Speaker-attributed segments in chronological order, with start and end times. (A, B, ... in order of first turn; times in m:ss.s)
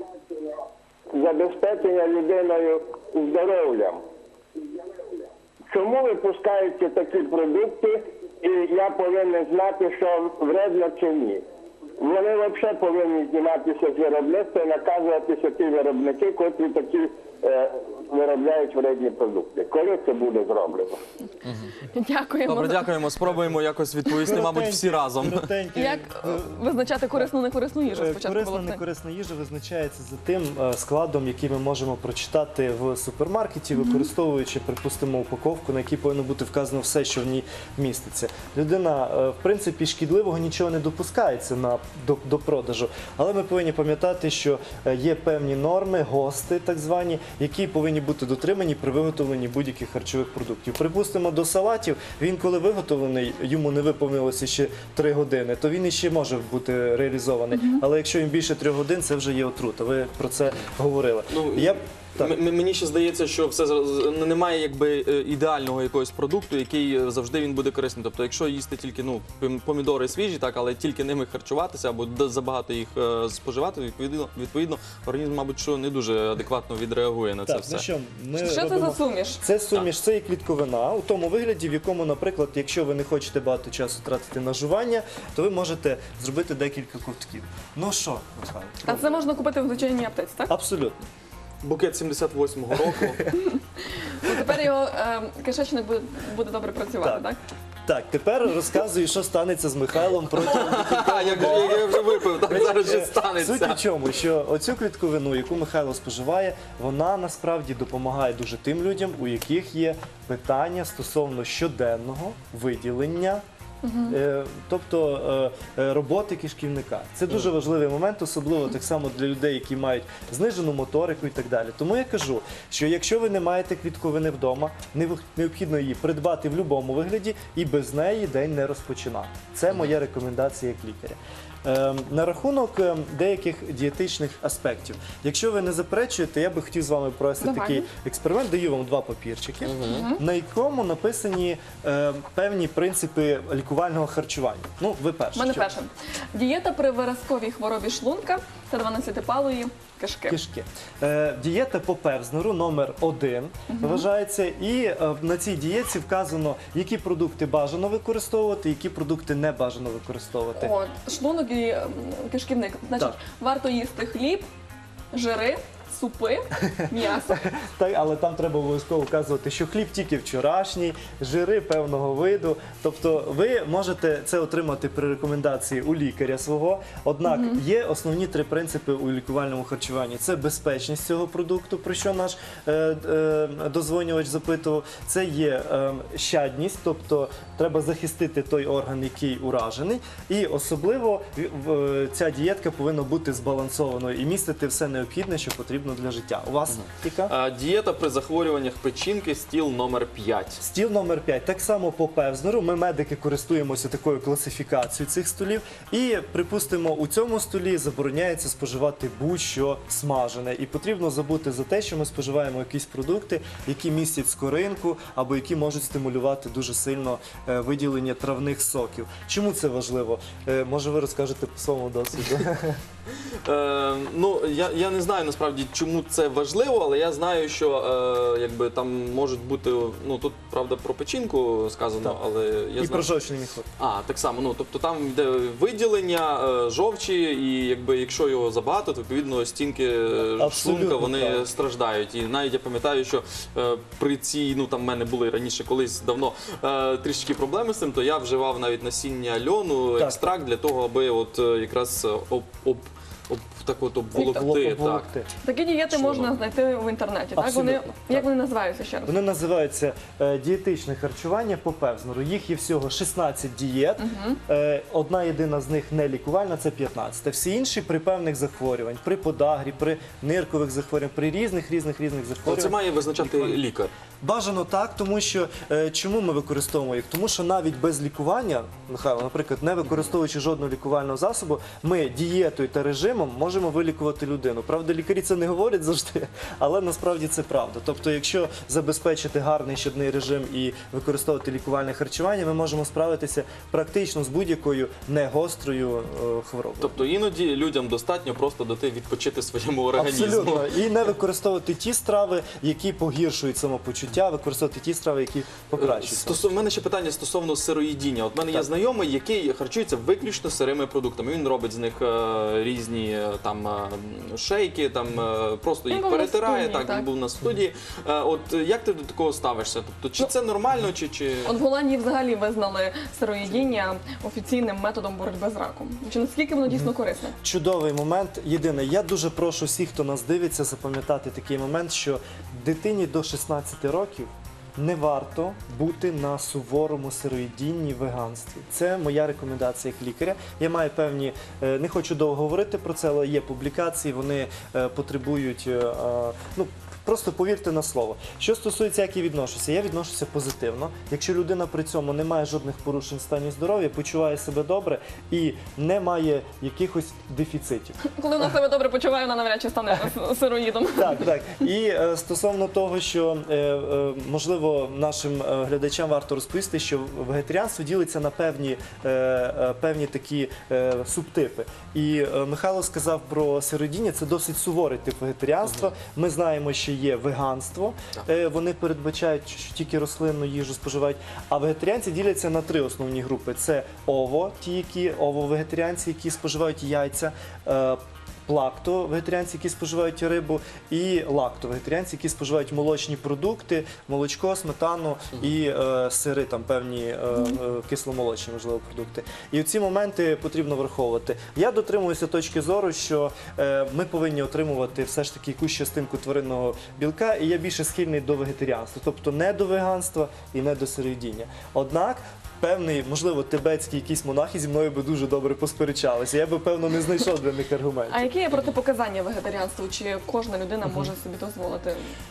0:01.1-0:04.0 A
0:05.7-0:11.4 A
0:12.0-0:21.0 A
0:21.4-0:21.8 B
0:21.8-0:22.9 C
0:22.4-0:25.5 B
0:24.3-0:26.6 D
0:25.8-0:28.8 C
0:27.9-1:02.4 D
0:33.8-0:34.1 C
0:57.5-0:57.8 C
1:01.3-1:17.8 B
1:17.4-1:29.1 D
1:18.4-1:19.4 C
1:28.8-1:30.5 C
1:30.5-1:31.0 D
1:31.6-1:33.2 B
1:32.9-1:33.5 D
1:33.9-1:37.4 C
1:37.0-1:37.3 D
1:37.8-1:53.4 D
1:40.4-1:43.8 B
1:53.8-1:54.2 C
1:54.1-2:25.7 D
2:17.4-2:17.9 C
2:19.6-2:20.1 B
2:19.9-2:20.2 C
2:25.3-2:30.4 C
2:30.3-2:40.7 D
2:33.7-2:34.0 C
2:40.6-2:44.4 C
2:45.1-2:47.4 C
2:46.8-3:17.3 D
2:57.2-2:57.6 C
3:16.7-3:20.6 B
3:20.6-3:42.8 D
3:43.4-3:53.1 B
3:52.8-3:53.7 D
3:53.8-4:15.1 B
4:00.4-4:01.4 D
4:14.1-4:15.3 D
4:14.2-4:14.4 C
4:15.4-4:19.2 C
4:15.9-4:16.4 B
4:17.4-4:18.3 D
4:19.0-4:33.6 D
4:24.0-4:24.4 C
4:32.4-4:33.9 B
4:34.2-4:57.0 D
4:56.8-5:00.8 B
5:00.0-5:06.4 D
5:05.7-5:21.5 B
5:15.9-5:17.1 C
5:21.4-5:27.4 C
5:27.4-5:58.0 D
5:58.1-6:01.3 C
6:00.9-6:58.3 D
6:58.1-7:02.0 C